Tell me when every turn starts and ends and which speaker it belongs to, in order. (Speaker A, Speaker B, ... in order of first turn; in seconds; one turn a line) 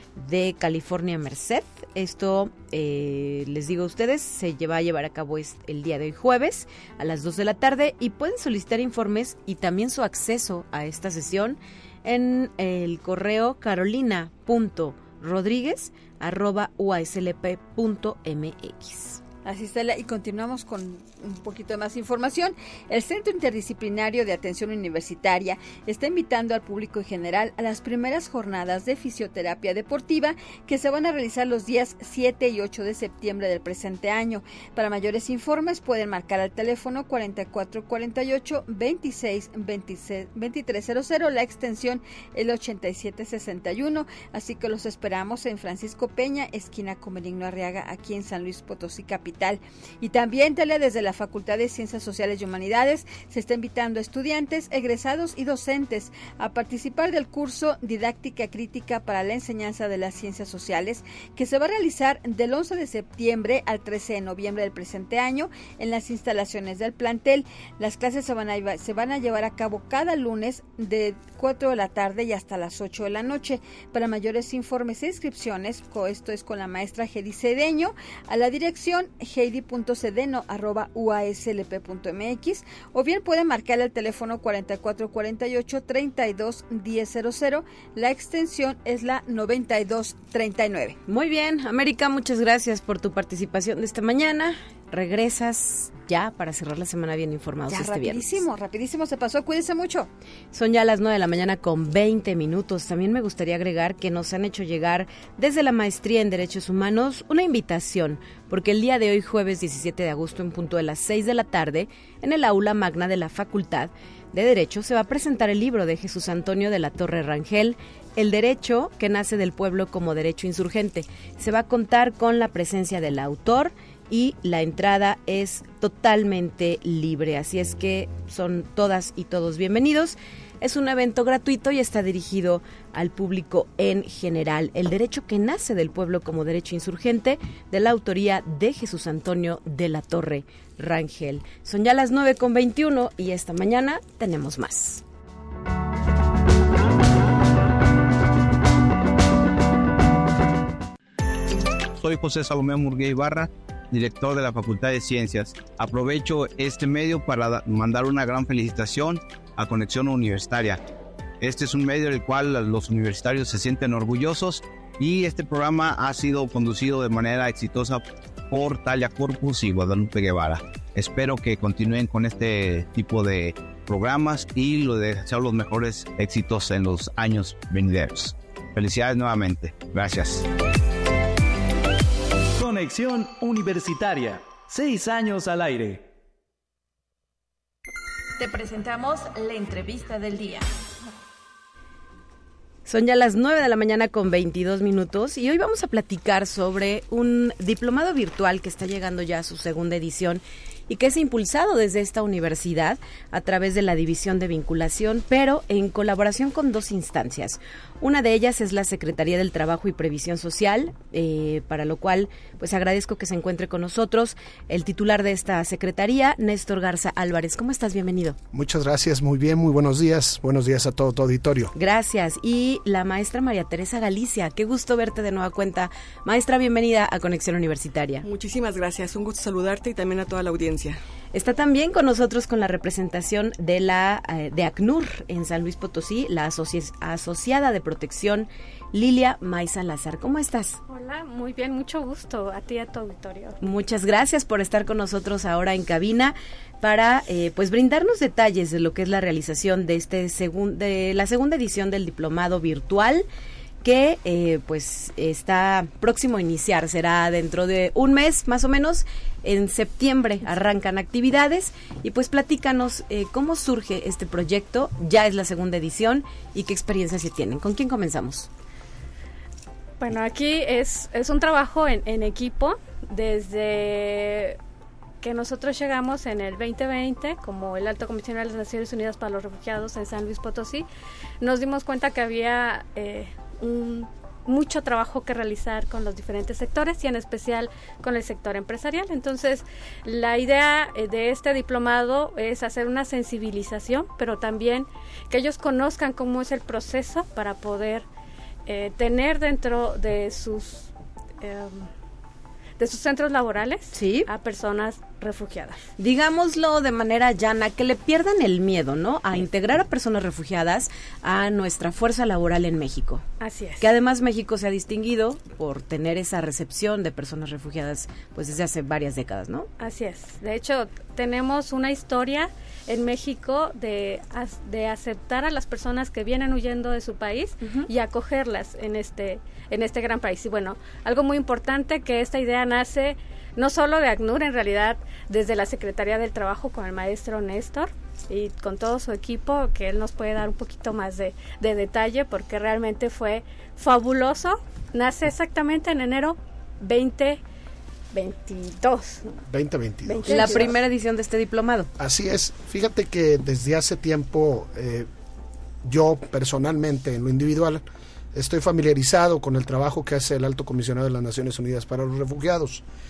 Speaker A: 0.1-19.2
Speaker B: 19.4-91.0
Speaker A: 91.0-98.4
Speaker B: 97.7-100.1
Speaker A: 100.5-145.0
Speaker C: 152.0-160.8
Speaker C: 161.4-180.4
Speaker D: 182.6-186.1
Speaker E: 188.4-190.7
Speaker A: 192.8-218.4
Speaker F: 218.5-221.7
Speaker A: 221.7-228.2
Speaker G: 228.2-231.0
Speaker A: 231.3-240.8
Speaker H: 240.9-243.6
Speaker A: 243.6-253.2
Speaker A: 253.8-268.5
Speaker H: 270.0-274.6
Speaker H: 275.2-280.9
Speaker H: 281.4-298.1
Speaker H: 298.6-301.9
Speaker H: 302.8-305.8
Speaker A: 303.9-304.3
Speaker A: 306.0-313.2
Speaker H: 313.4-313.9
Speaker A: 313.8-319.7
Speaker H: 319.8-347.4
Speaker A: 327.6-327.9
Speaker H: 348.1-349.3
Speaker F: 349.5-350.7
Speaker H: 350.1-350.7
Speaker A: 350.3-351.9
Speaker F: 352.0-355.1
Speaker F: 355.8-362.8